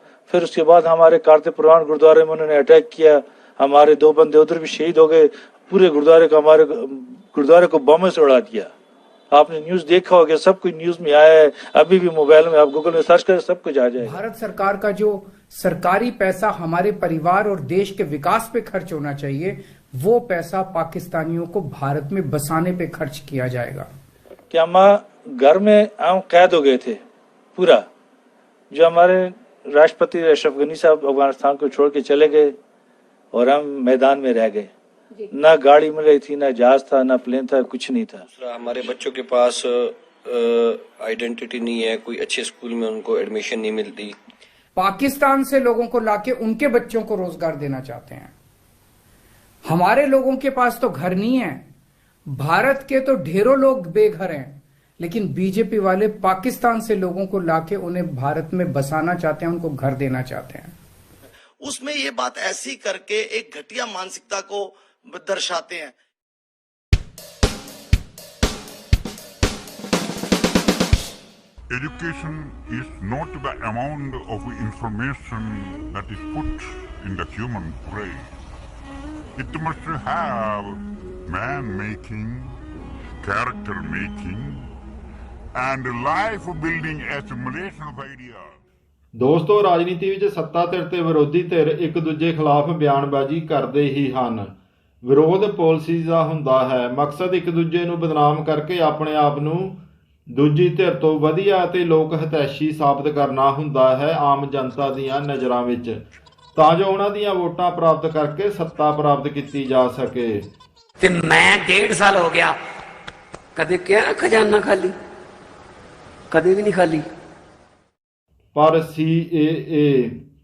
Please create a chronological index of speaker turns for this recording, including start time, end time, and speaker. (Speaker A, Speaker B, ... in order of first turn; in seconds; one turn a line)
Speaker A: 0.3-8.7
Speaker A: 9.3-14.2
Speaker B: 14.0-23.9
Speaker A: 24.5-27.0
Speaker A: 27.5-27.9
Speaker A: 28.7-32.5
Speaker A: 33.3-34.7
Speaker A: 35.3-38.2
Speaker C: 38.4-44.1
Speaker B: 44.7-48.3
Speaker B: 49.7-51.6
Speaker B: 52.3-60.7
Speaker D: 61.6-65.9
Speaker E: 71.7-78.3
Speaker E: 79.4-80.7
Speaker E: 81.3-82.5
Speaker E: 83.2-84.6
Speaker E: 85.5-88.4
Speaker F: 89.1-94.5
Speaker F: 95.0-106.0
Speaker F: 106.5-110.5
Speaker G: 111.0-112.6
Speaker G: 113.5-114.9
Speaker G: 116.3-117.0
Speaker F: 118.5-120.2